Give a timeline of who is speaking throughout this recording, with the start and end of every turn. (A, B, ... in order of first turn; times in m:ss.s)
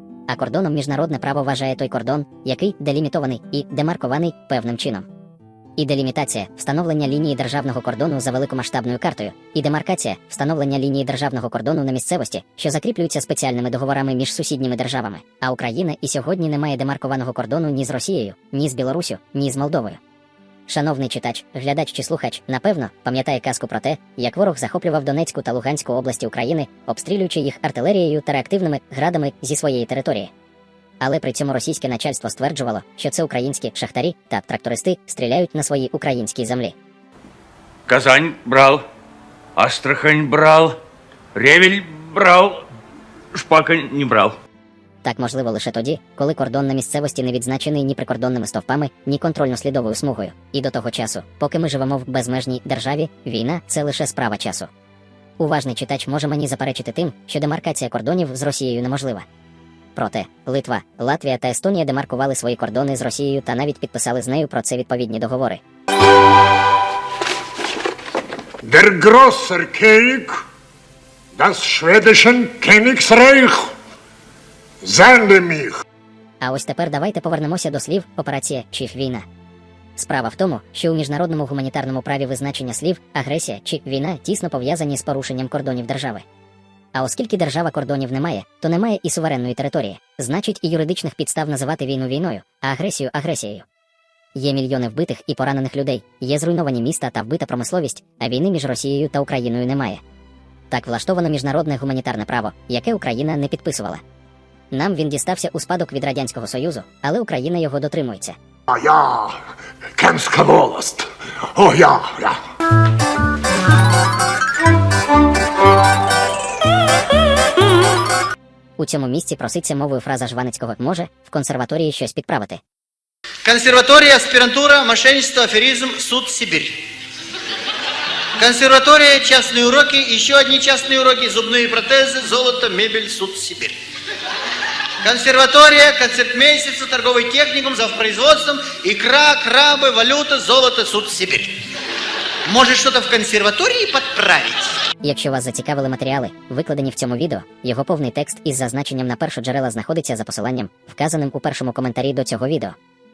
0:00.3-0:05.1 A
0:05.8-0:20.0 A
0:20.7-0:30.3 A
0:31.0-0:36.8 A
0:37.9-0:38.8 B
0:39.6-0:40.8 B
0:41.4-0:42.6 B
0:43.3-0:44.4 B
0:45.0-0:54.7 A
0:55.4-0:59.3 A
1:00.0-1:05.6 A
1:08.6-1:10.5 C
1:11.3-1:13.8 C
1:14.8-1:15.8 C
1:16.4-1:19.3 A
1:20.0-1:26.2 A
1:27.0-1:33.7 A
1:34.4-1:40.0 A
1:40.7-1:44.0 A
1:44.7-1:48.4 A
1:48.7-1:49.4 C
1:50.0-1:52.4 C
1:58.8-2:02.6 A
2:03.4-2:06.8 D
2:08.4-2:13.8 D
2:15.0-2:21.6 D
2:22.5-2:24.8 D
2:25.0-2:32.8 A